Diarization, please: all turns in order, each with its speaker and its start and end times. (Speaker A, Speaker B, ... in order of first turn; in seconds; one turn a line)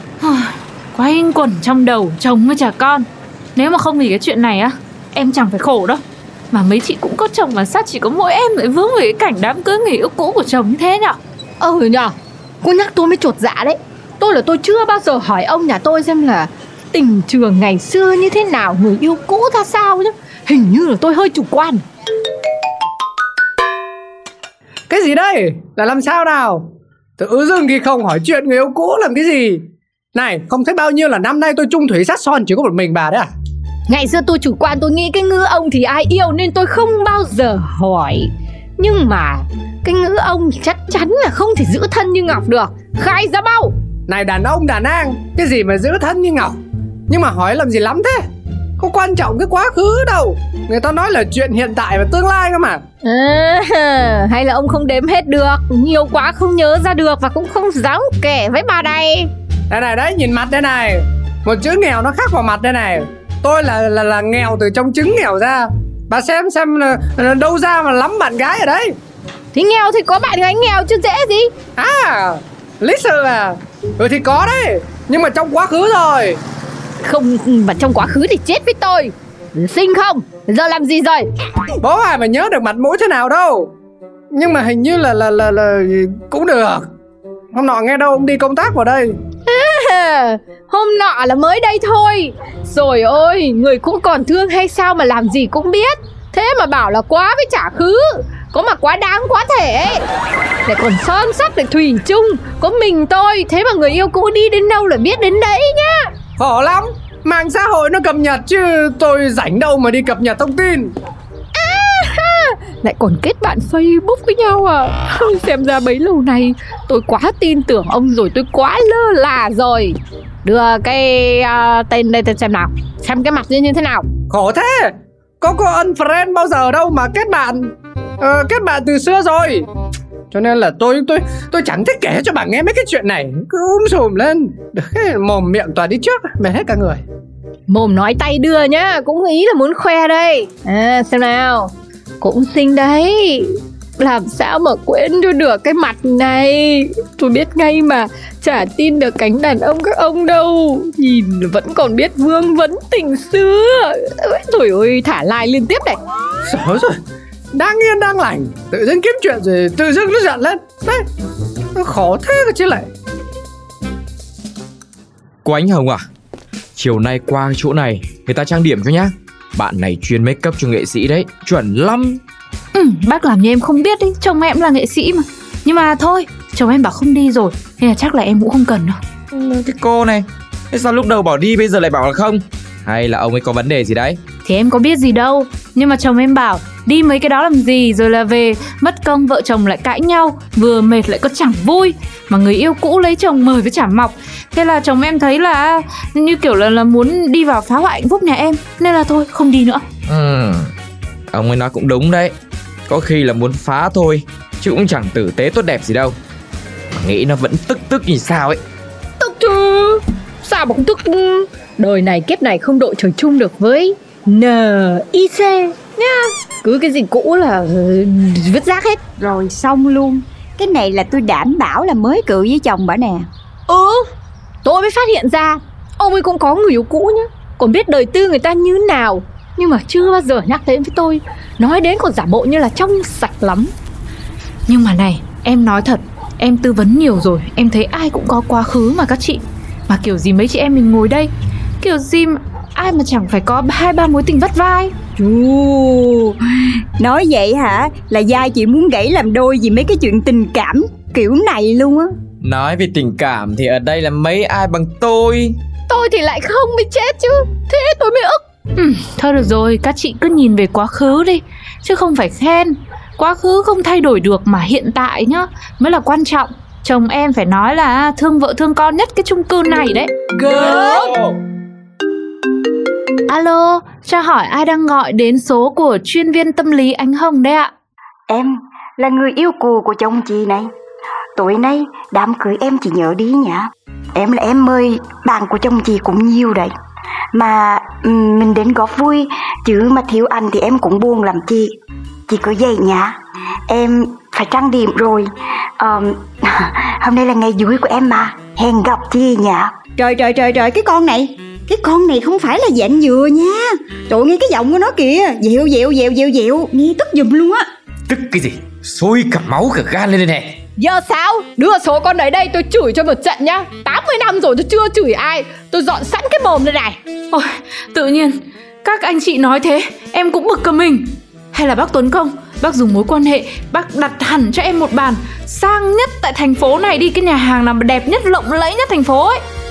Speaker A: 0.2-11.2
Speaker B: 11.6-21.8
Speaker C: 24.9-26.6
Speaker C: 27.2-29.6
Speaker C: 30.1-33.3
Speaker B: 33.9-43.7
Speaker C: 44.1-46.6
Speaker C: 47.1-48.2
Speaker C: 48.8-52.8
Speaker B: 53.0-59.3
Speaker C: 59.7-68.9
Speaker B: 69.5-71.5
Speaker C: 71.8-76.4
Speaker B: 77.0-81.3
Speaker C: 81.8-83.7
Speaker C: 84.3-86.8
Speaker C: 87.5-89.1
Speaker B: 89.5-100.0
Speaker B: 100.7-106.1
Speaker C: 106.4-110.9
Speaker B: 111.6-124.1
Speaker C: 124.2-129.7
Speaker C: 130.3-137.0
Speaker B: 137.7-156.0
Speaker C: 156.5-157.0
Speaker C: 157.5-161.1
Speaker C: 161.8-162.9
Speaker D: 165.4-166.0
Speaker D: 166.8-172.2
Speaker A: 172.7-179.0
Speaker D: 179.3-184.2
Speaker A: 184.4-199.8
Speaker D: 200.1-200.7
Speaker D: 201.3-202.3
Speaker D: 202.9-206.2
Speaker D: 207.0-208.6
Speaker B: 209.2-219.0
Speaker E: 219.2-223.3
Speaker B: 223.7-224.1
Speaker B: 224.7-233.7
Speaker A: 234.7-241.3
Speaker A: 241.8-244.9
Speaker E: 245.2-246.4
Speaker E: 247.0-252.1
Speaker D: 252.4-255.6
Speaker B: 255.9-258.4
Speaker A: 258.8-270.1
Speaker E: 270.6-270.9
Speaker A: 273.3-277.7
Speaker E: 278.3-280.7
Speaker E: 281.4-286.7
Speaker E: 287.3-291.7
Speaker E: 292.3-293.1
Speaker E: 293.7-295.3
Speaker E: 295.8-307.6
Speaker D: 308.1-310.6
Speaker B: 310.8-316.9
Speaker A: 317.3-329.4